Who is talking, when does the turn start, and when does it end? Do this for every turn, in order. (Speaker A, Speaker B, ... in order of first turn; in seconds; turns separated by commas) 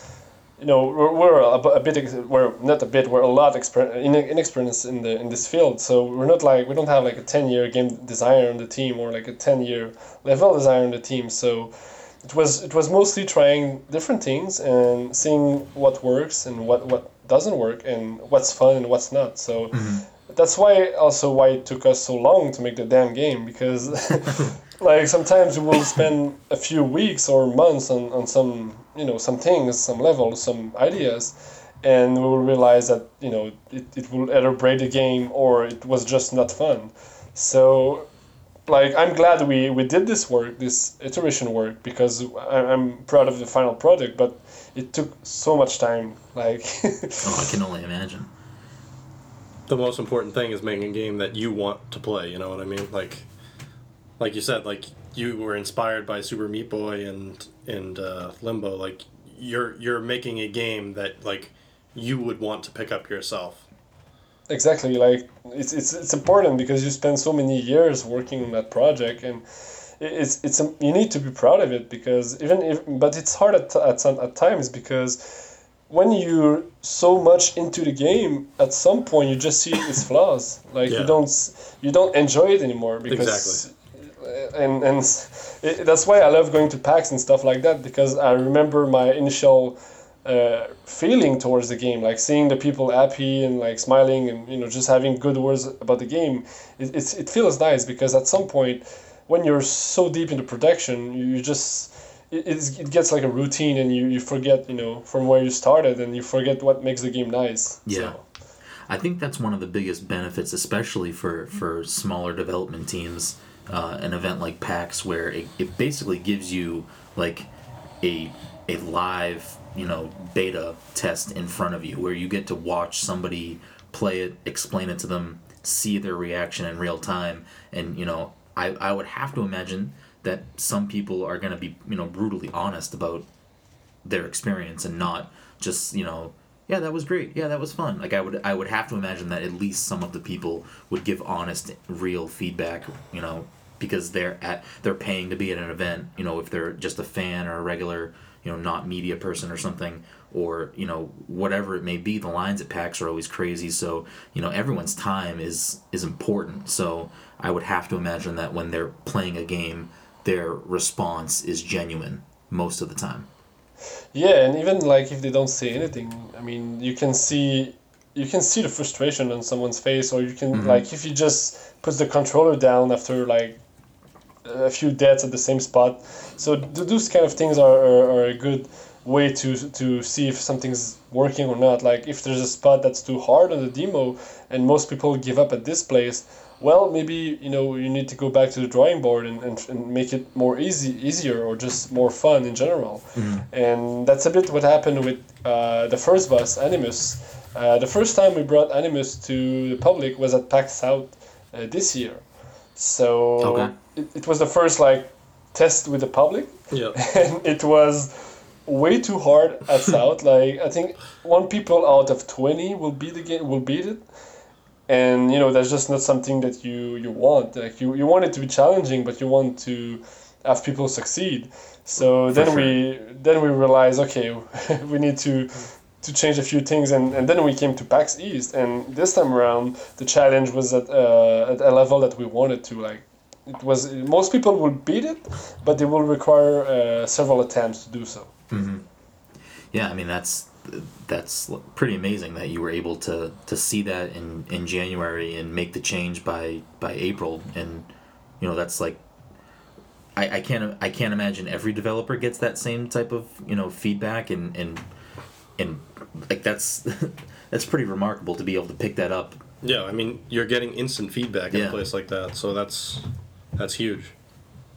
Speaker A: 0.6-11.7, Speaker A: 12.2-38.1, Speaker B: 19.7-20.1, Speaker A: 38.7-47.4, Speaker B: 47.2-48.3, Speaker C: 49.7-53.3, Speaker C: 54.2-63.6, Speaker A: 64.5-69.4, Speaker A: 70.0-108.2, Speaker C: 80.9-81.2, Speaker C: 83.1-83.6, Speaker B: 107.9-108.2, Speaker B: 108.9-117.5, Speaker B: 118.0-133.3, Speaker B: 134.1-163.3, Speaker A: 164.1-173.6, Speaker B: 170.5-170.8, Speaker A: 174.4-202.2, Speaker B: 193.2-193.4, Speaker A: 202.8-208.1, Speaker B: 203.4-203.7, Speaker C: 206.7-207.0, Speaker A: 208.7-214.0, Speaker A: 214.9-238.3, Speaker B: 222.3-222.8, Speaker B: 238.5-238.8, Speaker B: 239.7-247.9, Speaker B: 248.4-249.0, Speaker B: 250.2-254.8, Speaker B: 255.6-259.4, Speaker C: 259.6-264.1, Speaker B: 261.5-261.8